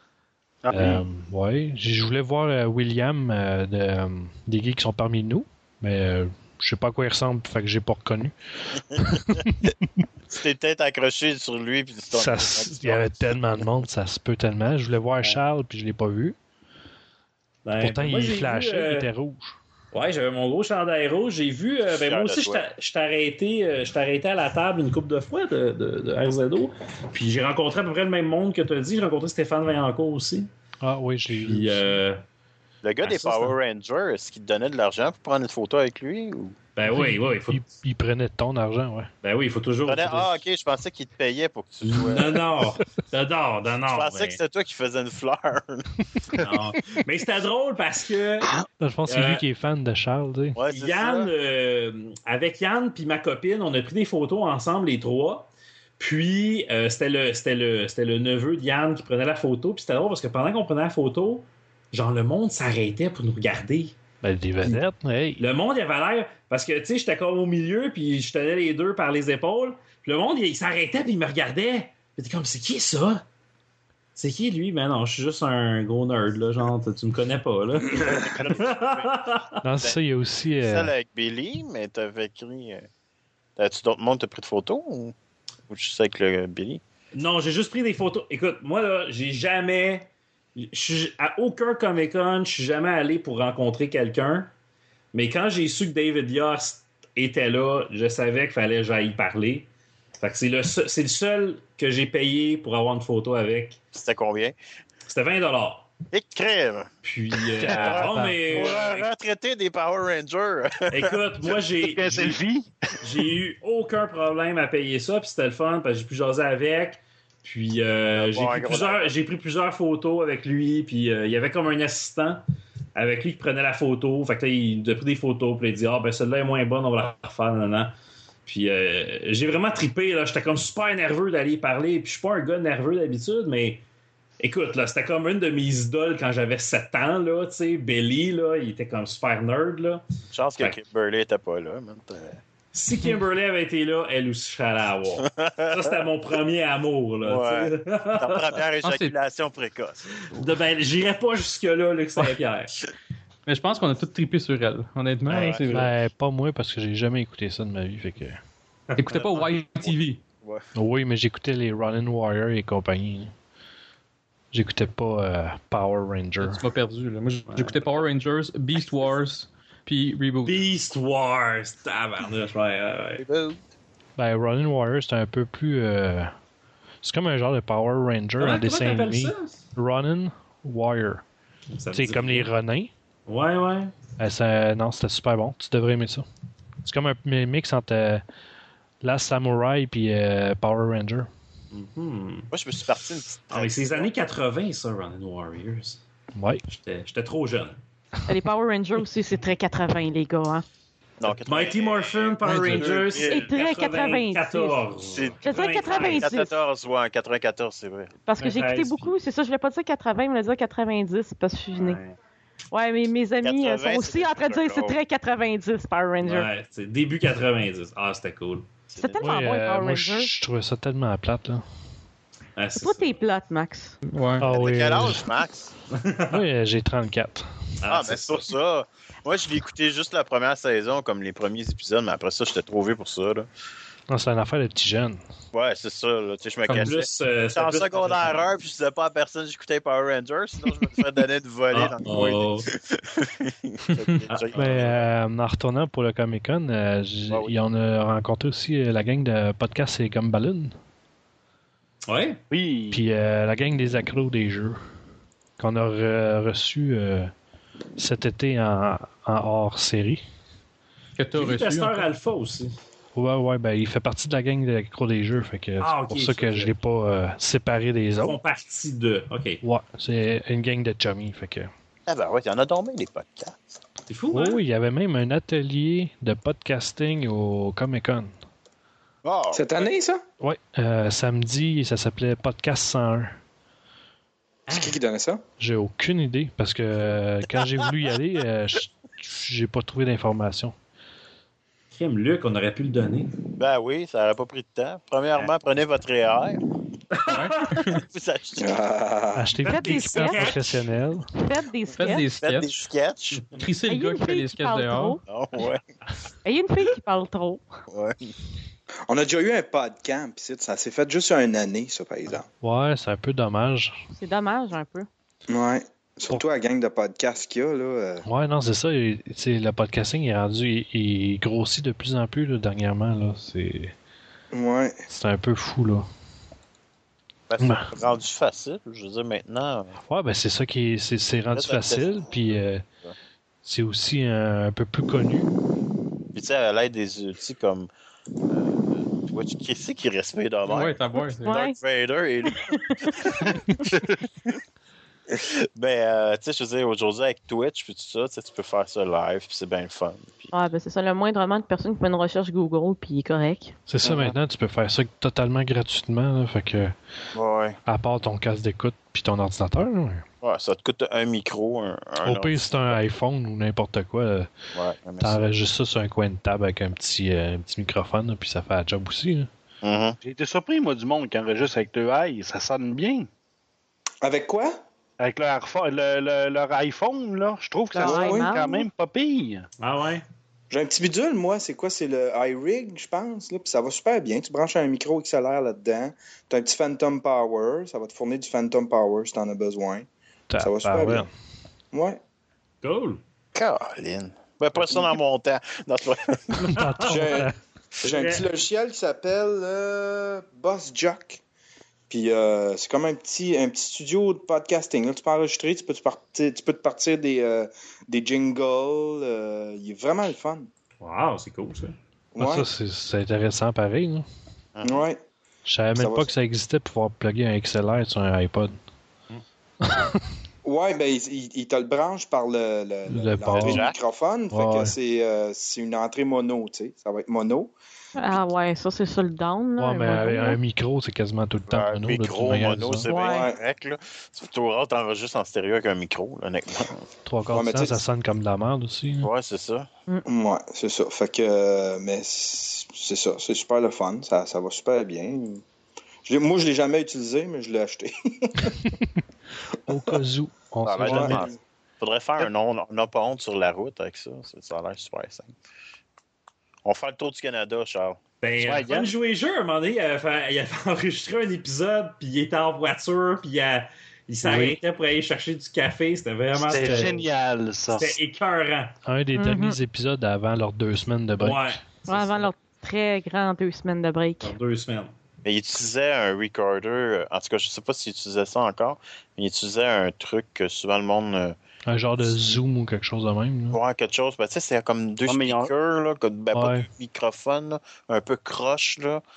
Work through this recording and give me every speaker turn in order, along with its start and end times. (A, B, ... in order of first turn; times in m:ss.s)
0:00.6-0:01.0 A
0:00.7-0:09.7 B
0:09.0-0:09.7 C
0:10.3-0:13.1 C
0:12.1-0:16.4 B
0:17.6-0:19.1 D
0:17.8-0:19.6 B
0:19.9-0:30.5 D
0:21.9-0:22.6 C
0:30.8-0:32.0 B
0:31.3-0:32.2 D
0:32.8-0:36.6 C
0:33.0-0:33.6 D
0:36.8-0:37.6 D
0:36.9-0:39.1 B
0:39.2-0:40.4 D
0:39.8-0:42.4 C
0:41.8-0:44.4 D
0:43.9-0:45.9 C
0:46.4-0:48.5 D
0:48.8-0:50.6 B
0:49.1-0:49.4 D
0:50.6-0:51.3 C
0:50.7-1:04.0 D
1:04.2-1:05.4 B
1:05.4-1:13.2 D
1:14.2-1:19.5 D
1:18.0-1:19.1 C
1:19.6-1:20.9 B
1:20.6-1:22.9 C
1:23.6-1:25.2 C
1:25.7-1:26.8 C
1:27.1-1:34.5 D
1:35.1-1:39.7 D
1:40.2-1:43.8 D
1:43.9-1:44.6 C
1:45.1-1:45.9 D
1:46.1-1:46.9 C
1:47.0-1:49.1 D
1:47.6-1:51.2 C
1:47.6-1:48.6 B
1:50.9-1:52.4 D
1:51.8-1:53.1 A
1:53.0-2:02.4 D
1:58.2-1:59.1 C
2:03.0-2:07.9 D
2:08.5-2:13.8 D
2:14.4-2:20.0 D
2:20.3-2:22.4 C
2:22.7-2:28.6 D
2:25.2-2:26.0 C
2:27.2-2:30.1 C
2:28.8-2:29.2 E
2:30.2-2:32.8 D
2:33.5-2:35.9 E
2:35.3-2:35.6 C
2:35.7-2:38.4 B
2:39.0-2:40.2 E
2:39.1-2:40.7 C
2:40.8-2:43.3 B
2:44.5-2:46.6 B
2:46.4-2:50.6 E
2:47.5-2:47.8 D
2:50.4-2:53.2 D
2:53.2-2:53.6 C
2:54.2-2:56.3 B
2:57.0-3:01.2 B
2:58.4-2:59.6 D
3:01.7-3:02.5 D
3:01.9-3:02.9 B
3:03.3-3:03.9 D
3:04.2-3:06.3 B
3:06.8-3:08.2 B
3:09.0-3:11.3 B
3:11.7-3:12.5 D
3:12.5-3:14.1 C
3:13.5-3:16.0 D
3:16.4-3:16.6 B
3:16.7-3:17.8 D
3:18.3-3:20.6 F
3:21.2-3:23.5 C
3:21.2-3:26.3 D
3:22.5-3:22.9 B
3:23.2-3:24.8 F
3:25.0-3:28.1 C
3:25.4-3:26.5 F
3:28.3-3:32.0 F
3:28.4-3:29.1 D
3:31.7-3:32.2 D
3:32.7-3:36.5 F
3:33.4-3:35.0 C
3:36.2-3:38.7 D
3:38.9-3:39.3 C
3:39.0-3:40.3 F
3:39.2-3:41.6 B
3:42.6-3:43.1 D
3:42.8-3:44.0 F
3:44.0-3:44.5 E
3:44.4-3:45.2 B
3:44.4-3:45.7 C
3:45.9-3:46.4 D
3:46.3-3:47.5 B
3:47.8-3:48.4 D
3:47.9-3:53.5 C
3:54.1-3:55.2 B
3:55.5-4:05.1 C
3:56.7-3:58.4 D
4:01.7-4:02.7 D
4:04.6-4:10.8 B
4:12.1-4:12.4 D
4:12.5-4:13.0 A
4:12.9-4:14.8 B
4:15.6-4:17.3 B
4:18.0-4:20.2 B
4:21.2-4:22.1 E
4:21.4-4:22.7 D
4:23.2-4:28.4 B
4:25.8-4:26.7 D
4:28.2-4:29.6 D
4:29.6-4:31.7 B
4:32.1-4:33.6 C
4:34.1-4:34.6 D
4:34.3-4:38.3 B
4:39.2-4:39.9 C
4:39.5-4:40.2 G
4:40.4-4:43.4 B
4:44.7-4:45.4 G
4:44.7-4:45.0 D
4:45.6-4:50.7 B
4:51.9-4:53.4 D
4:53.6-4:56.6 C
4:57.1-4:57.8 D
4:57.3-4:58.0 E
4:58.1-4:58.8 C
4:58.6-4:59.5 G
4:59.4-5:01.3 B
4:59.6-5:00.6 D
4:59.7-5:00.6 F
5:01.4-5:02.3 F
5:02.0-5:02.8 E
5:02.4-5:03.5 C
5:03.6-5:05.2 E
5:03.9-5:05.2 F
5:05.3-5:05.8 C
5:06.4-5:07.6 F
5:07.9-5:08.3 C
5:09.1-5:12.5 G
5:12.6-5:14.0 B
5:14.1-5:15.1 F
5:15.5-5:18.2 G
5:18.2-5:23.9 B
5:24.5-5:25.0 G
5:25.1-5:26.1 B
5:27.5-5:30.0 C
5:27.6-5:27.9 B
5:30.1-5:32.8 B
5:31.5-5:33.2 C
5:33.6-5:35.5 B
5:36.3-5:37.9 C
5:38.5-5:41.0 C
5:40.7-5:41.6 E
5:41.4-5:41.8 F
5:41.5-5:44.6 C
5:42.4-5:43.9 F
5:45.3-5:50.5 C
5:50.5-5:53.8 F
5:53.9-5:57.0 B
5:54.0-5:54.4 C
5:57.3-5:57.8 C
5:57.9-6:00.2 B
6:00.4-6:03.0 C
6:02.2-6:04.5 B
6:04.7-6:05.4 C
6:05.2-6:09.5 B
6:09.8-6:10.2 C
6:10.2-6:13.3 A
6:14.2-6:14.8 G
6:15.2-6:19.7 A
6:17.9-6:18.9 F
6:18.0-6:18.5 G
6:19.8-6:20.2 D
6:20.7-6:30.1 G
6:30.5-6:31.3 B
6:30.6-6:31.3 G
6:31.9-6:32.2 G
6:32.8-6:33.2 D
6:33.6-6:36.7 C
6:36.7-6:37.5 B
6:36.8-6:37.2 D
6:37.1-6:37.5 G
6:38.0-6:41.4 G
6:38.0-6:38.4 D
6:42.1-6:50.7 G
6:51.0-6:52.0 D
6:52.4-6:52.7 G
6:52.4-6:54.3 B
6:54.8-6:55.0 C
6:54.8-6:55.2 G
6:55.7-6:58.8 B
6:56.0-6:56.3 G
6:59.8-7:00.2 B
7:00.6-7:07.7 G
7:03.1-7:03.9 B
7:03.6-7:04.0 C
7:04.5-7:04.9 B
7:08.2-7:10.6 F
7:09.8-7:13.1 B
7:11.7-7:17.0 C
7:13.1-7:13.4 F
7:13.3-7:13.6 G
7:17.2-7:19.3 B
7:17.5-7:18.0 G
7:19.2-7:19.9 C
7:20.3-7:25.6 G
7:26.2-7:28.8 G
7:29.9-7:31.5 B
7:30.8-7:35.6 C
7:31.0-7:31.6 G
7:36.8-7:38.2 C
7:38.4-7:47.3 D
7:38.6-7:39.2 A
7:44.4-7:44.8 A
7:46.6-7:48.2 A
7:47.9-7:48.9 D
7:49.0-7:51.8 B
7:49.4-7:49.8 F
7:51.4-7:52.5 D
7:52.1-7:54.5 F
7:54.4-7:55.1 D
7:55.4-8:01.6 C
8:01.9-8:03.8 B
8:02.2-8:02.5 C
8:03.7-8:09.2 C
8:05.3-8:05.7 A
8:06.5-8:06.9 B